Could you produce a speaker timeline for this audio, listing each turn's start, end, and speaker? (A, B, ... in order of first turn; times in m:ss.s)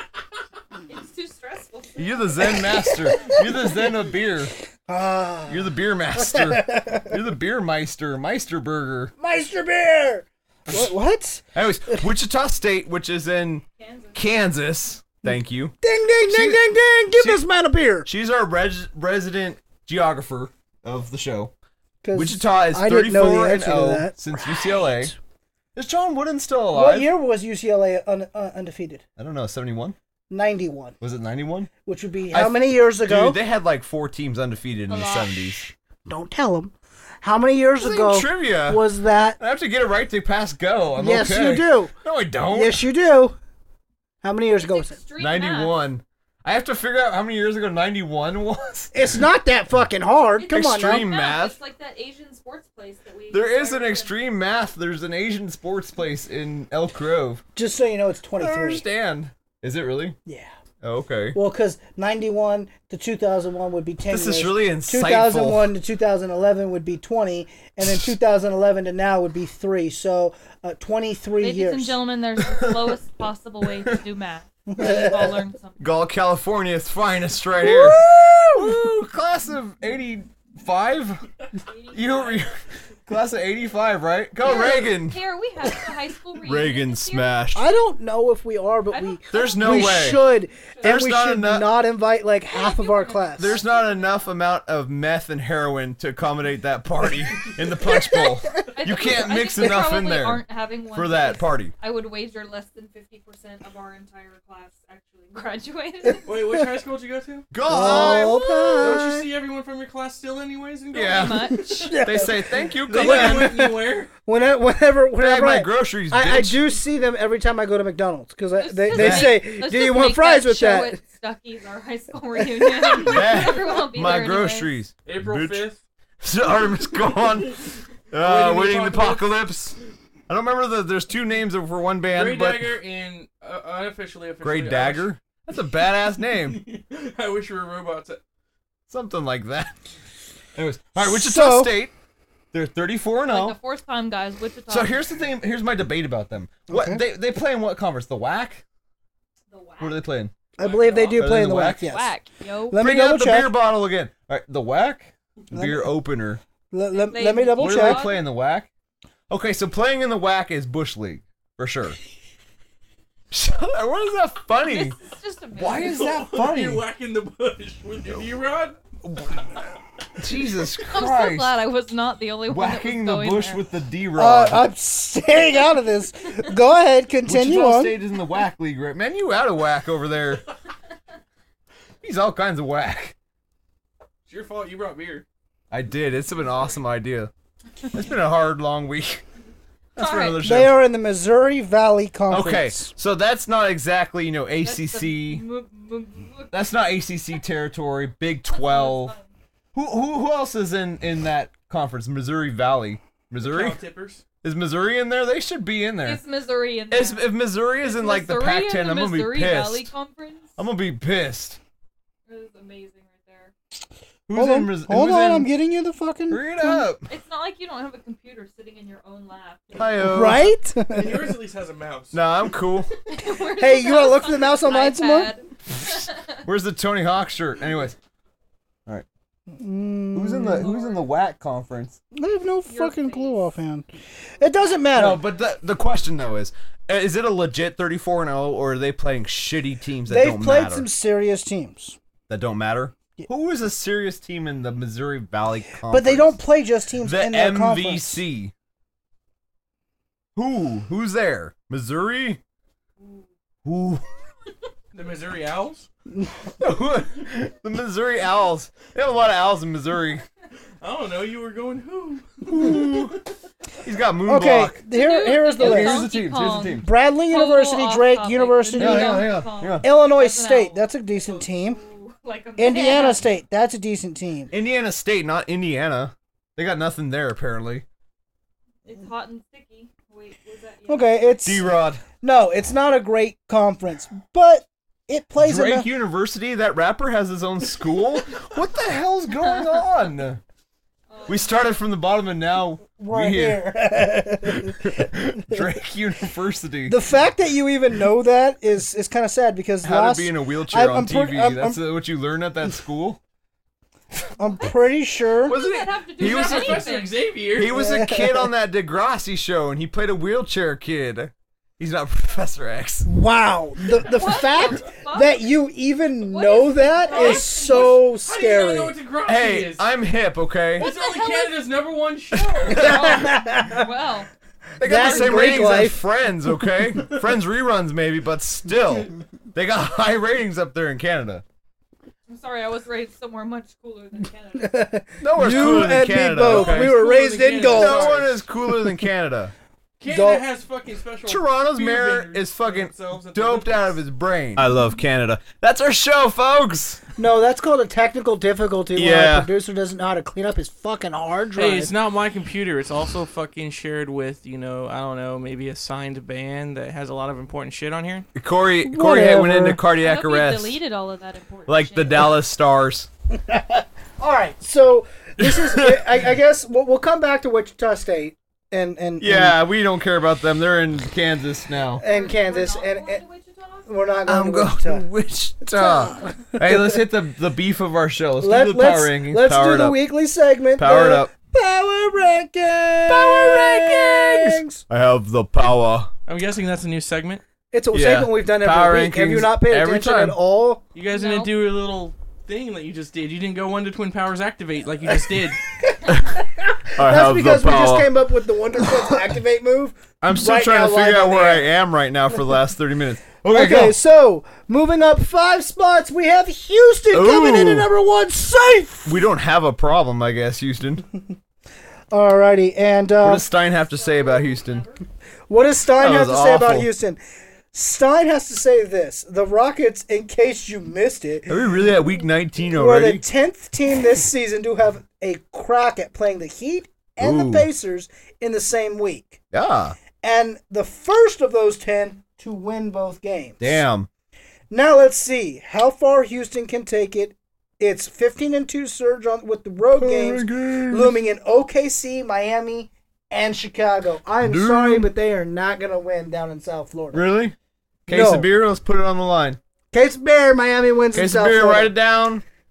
0:00.9-0:02.6 A
0:02.0-0:04.5 B
0:02.8-0:03.4 C
0:04.9-0:07.2 C
0:05.5-0:09.1 B
0:09.2-0:11.5 C
0:11.5-0:13.6 B
0:13.8-0:14.3 A
0:14.1-0:17.4 B
0:15.3-0:18.1 C
0:18.0-0:21.5 B
0:22.0-0:25.1 C
0:22.1-0:25.1 B
0:25.7-0:27.1 B
0:26.7-0:29.0 C
0:29.2-0:30.0 B
0:30.3-0:31.0 C
0:31.0-0:31.7 B
0:31.8-0:33.4 C
0:32.3-0:35.7 B
0:34.9-0:35.6 A
0:36.0-0:39.4 C
0:37.8-0:38.8 B
0:39.4-0:42.8 B
0:41.0-0:41.9 C
0:42.5-0:43.4 C
0:44.2-0:45.0 C
0:44.6-0:45.8 A
0:45.2-0:49.2 B
0:48.9-0:51.1 C
0:50.4-0:54.2 A
0:50.5-0:51.5 B
0:53.3-0:57.4 B
0:57.5-0:58.8 C
0:58.4-1:00.2 B
1:00.8-1:01.4 B
1:01.3-1:12.0 C
1:04.1-1:05.7 B
1:11.4-1:15.8 A
1:14.7-1:15.4 C
1:15.8-1:18.0 B
1:17.6-1:18.8 C
1:18.5-1:21.2 B
1:21.5-1:22.7 A
1:21.9-1:22.5 B
1:23.1-1:25.2 B
1:24.4-1:27.3 A
1:26.4-1:27.7 B
1:27.5-1:33.6 C
1:28.9-1:31.0 A
1:29.3-1:30.2 B
1:30.8-1:31.7 B
1:32.5-1:34.3 A
1:33.4-1:41.7 B
1:37.9-1:38.3 C
1:38.7-1:46.4 A
1:46.2-1:51.6 D
1:47.5-1:49.3 B
1:47.6-1:49.0 C
1:50.9-1:53.6 B
1:51.0-1:52.0 A
1:51.8-2:01.0 C
1:52.9-1:54.1 D
1:55.2-1:56.6 B
1:58.6-2:04.7 A
1:58.9-1:59.4 B
2:02.6-2:03.1 C
2:03.0-2:05.6 B
2:05.0-2:05.8 D
2:06.2-2:09.8 B
2:08.2-2:09.3 D
2:10.3-2:12.8 B
2:12.1-2:15.1 D
2:14.4-2:16.6 B
2:16.3-2:18.2 D
2:18.9-2:19.8 B
2:20.6-2:21.9 B
2:21.0-2:21.7 C
2:22.5-2:23.6 B
2:23.3-2:25.0 A
2:24.7-2:28.6 B
2:26.7-2:27.0 C
2:29.5-2:30.0 A
2:29.8-2:30.3 B
2:30.6-2:32.1 C
2:30.6-2:31.2 D
2:31.1-2:31.9 B
2:31.6-2:32.8 A
2:32.7-2:33.5 C
2:32.7-2:36.4 B
2:35.5-2:35.9 C
2:36.7-2:38.1 C
2:36.9-2:38.2 A
2:37.6-2:38.7 B
2:39.3-2:42.0 B
2:43.3-2:45.0 B
2:44.6-2:46.0 A
2:45.6-2:46.8 B
2:45.7-2:48.8 D
2:49.0-2:49.4 B
2:50.2-2:51.5 B
2:50.8-2:53.6 A
2:52.5-2:54.6 B
2:54.2-2:57.9 C
2:57.2-3:00.4 B
3:02.0-3:03.1 B
3:04.3-3:05.2 D
3:05.7-3:07.3 B
3:06.4-3:06.8 A
3:07.9-3:09.2 B
3:10.0-3:10.4 A
3:10.0-3:10.8 B
3:10.4-3:12.9 C
3:12.3-3:15.4 B
3:14.6-3:16.6 A
3:16.5-3:19.1 B
3:18.5-3:19.3 A
3:19.7-3:23.8 B
3:23.4-3:24.2 D
3:24.4-3:26.2 B
3:26.0-3:30.6 A
3:26.9-3:29.9 B
3:30.6-3:31.6 B
3:32.3-3:33.5 A
3:34.3-3:35.5 B
3:34.3-3:36.8 C
3:36.3-3:37.1 B
3:37.1-3:40.2 A
3:39.7-3:40.5 B
3:40.1-3:41.2 C
3:40.9-3:42.2 D
3:42.1-3:42.9 B
3:43.1-3:46.4 A
3:43.5-3:45.3 C
3:46.4-3:48.0 B
3:49.5-3:50.7 C
3:50.1-3:52.0 B
3:50.6-3:51.1 A
3:52.1-3:53.9 C
3:52.7-3:53.5 A
3:54.4-3:55.2 C
3:54.6-3:54.8 A
3:54.9-4:00.9 B
4:00.1-4:02.0 C
4:02.3-4:06.4 B
4:05.9-4:08.2 C
4:07.0-4:08.5 B
4:10.4-4:12.4 B
4:13.0-4:13.2 A
4:13.6-4:14.0 B
4:14.9-4:15.9 D
4:16.1-4:16.4 C
4:16.6-4:20.2 B
4:20.8-4:23.0 D
4:22.4-4:23.2 B
4:23.8-4:24.8 B
4:24.3-4:26.1 C
4:24.9-4:33.2 A
4:25.6-4:26.9 B
4:26.8-4:31.8 C
4:28.8-4:29.8 B
4:32.6-4:34.5 C
4:34.5-4:37.8 B
4:38.8-4:41.4 A
4:40.9-4:41.6 C
4:41.4-4:42.0 B
4:42.2-4:45.9 C
4:45.4-4:50.4 B
4:51.1-4:51.5 A
4:51.3-4:53.6 B
4:53.0-4:55.1 C
4:54.7-4:57.0 B
4:56.9-5:01.8 C
4:59.8-5:03.2 B
5:04.4-5:05.5 C
5:04.4-5:04.7 A
5:05.4-5:06.9 B
5:05.5-5:07.1 A
5:06.2-5:07.8 D
5:07.5-5:13.1 B
5:07.7-5:08.5 C
5:13.0-5:18.9 C
5:13.9-5:15.4 A
5:16.2-5:18.1 A
5:17.1-5:19.8 D
5:19.2-5:20.9 B
5:20.8-5:23.1 D
5:20.8-5:21.6 A
5:22.6-5:23.1 B
5:22.7-5:24.3 A
5:22.7-5:23.9 C
5:24.8-5:31.4 B
5:24.8-5:26.0 C
5:32.3-5:34.8 A
5:34.6-5:38.2 C
5:35.2-5:37.0 B
5:35.4-5:38.4 D
5:37.7-5:39.5 B
5:40.0-5:44.0 D
5:40.1-5:40.4 C
5:41.2-5:47.0 B
5:47.2-5:51.9 C
5:48.9-5:49.5 B
5:51.5-5:58.3 D
5:58.3-6:00.8 B
5:58.9-5:59.8 C
6:00.0-6:02.3 A
6:01.7-6:03.1 B
6:03.5-6:09.6 C
6:05.4-6:06.1 B
6:09.2-6:12.0 B
6:12.0-6:13.2 C
6:12.0-6:13.9 A
6:13.9-6:15.0 C
6:14.2-6:20.0 B
6:15.7-6:17.0 C
6:18.4-6:24.8 C
6:20.8-6:21.3 B
6:23.1-6:26.1 B
6:26.2-6:27.4 D
6:27.7-6:30.8 C
6:27.9-6:30.4 B
6:30.9-6:35.6 D
6:31.1-6:31.5 A
6:35.8-6:41.7 C
6:36.1-6:36.4 B
6:36.9-6:38.1 B
6:38.8-6:39.3 B
6:40.2-6:44.0 B
6:43.5-6:49.2 C
6:47.1-6:47.9 B
6:49.0-6:51.0 B
6:52.1-6:53.5 C
6:53.2-6:54.8 B
6:53.5-6:55.0 A
6:55.5-6:57.2 C
6:56.0-6:56.9 B
6:57.7-7:01.6 C
7:01.5-7:03.2 B
7:02.7-7:09.4 C
7:07.2-7:07.7 B
7:09.5-7:10.0 B
7:10.2-7:13.8 C
7:13.6-7:14.1 B
7:14.7-7:27.2 C
7:20.0-7:21.1 B
7:24.4-7:25.1 B
7:27.1-7:27.5 B
7:28.0-7:29.6 B
7:28.1-7:28.5 C
7:29.9-7:31.9 C
7:31.1-7:32.4 B